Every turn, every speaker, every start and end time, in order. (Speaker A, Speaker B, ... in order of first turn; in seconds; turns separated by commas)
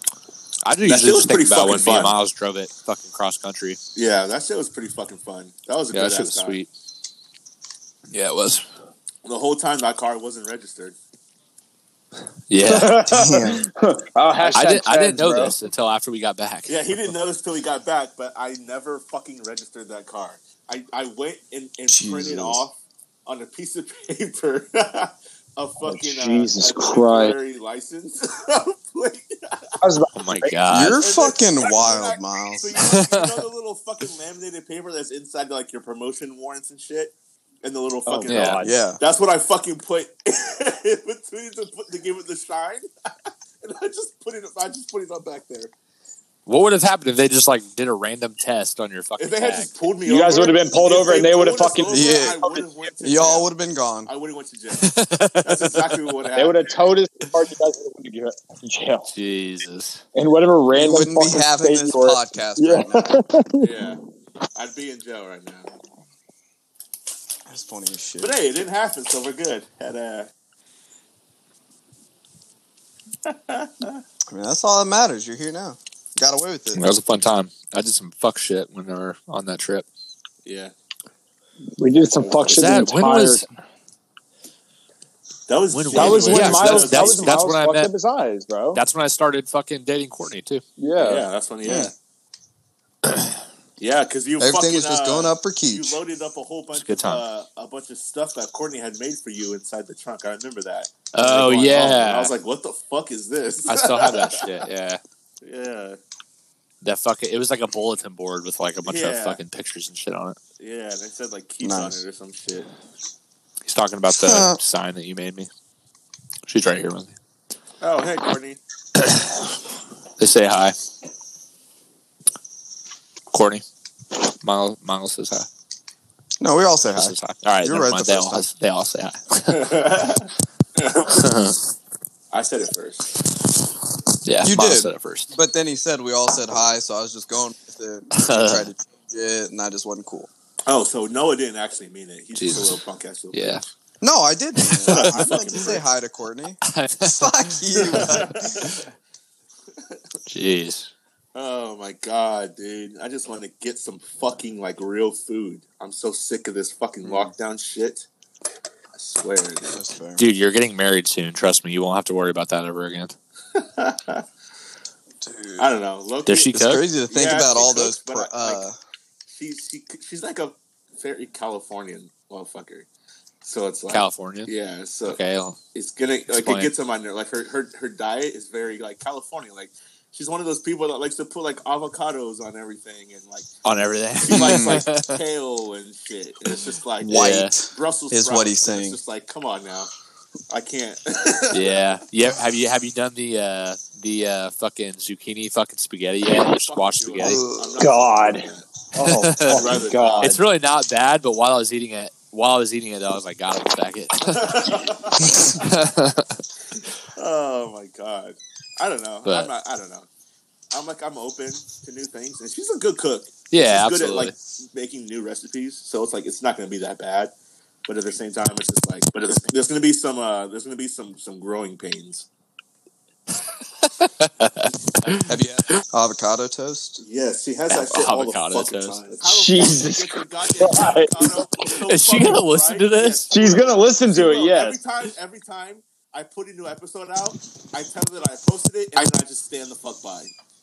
Speaker A: 0.7-3.8, Speaker B: 0.9-2.1, Speaker B: 4.0-6.6, Speaker A: 5.9-6.7, Speaker A: 8.1-8.7, Speaker B: 9.2-11.0, Speaker A: 12.5-13.0, Speaker C: 12.6-15.5, Speaker D: 13.1-13.6, Speaker B: 14.4-14.7, Speaker A: 14.6-17.1, Speaker B: 16.7-29.8, Speaker D: 21.9-22.6, Speaker C: 25.8-27.4, Speaker C: 29.8-30.6, Speaker A: 30.1-31.0, Speaker D: 30.7-32.7, Speaker B: 31.0-42.9, Speaker A: 32.8-33.4, Speaker C: 38.1-38.8, Speaker A: 38.3-38.6, Speaker D: 38.6-39.0, Speaker B: 43.6-45.7, Speaker A: 46.5-49.7, Speaker B: 49.2-53.5, Speaker C: 50.0-52.6, Speaker D: 51.9-52.4, Speaker D: 53.0-54.1, Speaker B: 54.1-57.0, Speaker A: 54.8-55.9, Speaker C: 56.4-59.1, Speaker A: 59.1-60.0, Speaker C: 60.1-63.7, Speaker D: 60.7-63.2, Speaker B: 63.6-64.0, Speaker B: 64.5-65.7, Speaker D: 67.5-68.4, Speaker B: 68.2-70.3, Speaker B: 73.3-74.0, Speaker D: 74.3-76.8, Speaker A: 76.7-79.9, Speaker B: 80.4-80.7, Speaker C: 81.8-83.4, Speaker A: 82.5-83.5, Speaker B: 85.5-87.4, Speaker A: 85.7-87.9, Speaker C: 86.0-88.8, Speaker A: 88.7-90.6, Speaker C: 90.8-91.2, Speaker B: 91.0-91.9, Speaker D: 91.6-91.9, Speaker A: 93.1-93.4, Speaker B: 93.8-104.5, Speaker D: 94.4-96.0, Speaker A: 96.7-97.2, Speaker A: 101.1-102.3, Speaker A: 103.7-105.0, Speaker B: 105.4-106.0, Speaker A: 106.8-110.4, Speaker B: 108.9-109.4, Speaker B: 110.6-112.7, Speaker D: 111.6-112.0, Speaker A: 113.7-115.5, Speaker D: 114.2-114.6, Speaker A: 116.5-117.1, Speaker B: 117.8-118.6, Speaker A: 119.0-119.6, Speaker A: 120.2-120.8, Speaker A: 123.3-123.6, Speaker A: 124.4-125.5, Speaker D: 126.4-128.5, Speaker A: 126.9-129.9, Speaker B: 129.5-131.3, Speaker A: 131.1-131.6, Speaker B: 132.3-133.1, Speaker A: 134.2-135.3, Speaker D: 134.4-140.3, Speaker A: 138.2-138.7, Speaker B: 140.7-143.6, Speaker A: 142.3-142.8, Speaker A: 143.3-143.6, Speaker D: 144.0-148.7, Speaker A: 144.6-145.2, Speaker B: 144.9-145.8, Speaker A: 146.7-147.5, Speaker B: 147.8-148.8, Speaker A: 150.3-150.9, Speaker B: 151.3-158.1, Speaker D: 157.0-157.3, Speaker B: 158.9-159.8, Speaker D: 159.7-160.3, Speaker A: 160.2-163.2, Speaker B: 163.6-164.2, Speaker D: 165.2-165.7, Speaker B: 165.6-168.6, Speaker A: 166.3-166.8, Speaker D: 166.5-168.8, Speaker B: 169.3-172.9, Speaker B: 173.4-175.2, Speaker A: 173.9-174.5, Speaker A: 175.1-175.6, Speaker B: 175.7-183.5, Speaker A: 176.3-176.7, Speaker A: 183.7-185.2, Speaker B: 184.2-189.9, Speaker D: 184.3-184.8, Speaker A: 187.0-187.5, Speaker D: 187.0-189.0, Speaker B: 190.5-191.8, Speaker A: 191.5-197.4, Speaker B: 196.3-198.7, Speaker D: 197.2-197.9, Speaker C: 197.8-200.4, Speaker A: 199.0-206.4, Speaker B: 199.4-200.3, Speaker B: 204.2-205.6, Speaker B: 207.2-210.1, Speaker A: 209.2-209.5, Speaker B: 210.7-217.3, Speaker A: 213.5-214.3, Speaker B: 217.9-222.3, Speaker A: 223.8-225.8, Speaker D: 225.2-227.0, Speaker B: 227.0-240.3, Speaker A: 227.7-229.0, Speaker C: 229.2-231.5, Speaker A: 231.8-233.3, Speaker C: 233.3-234.8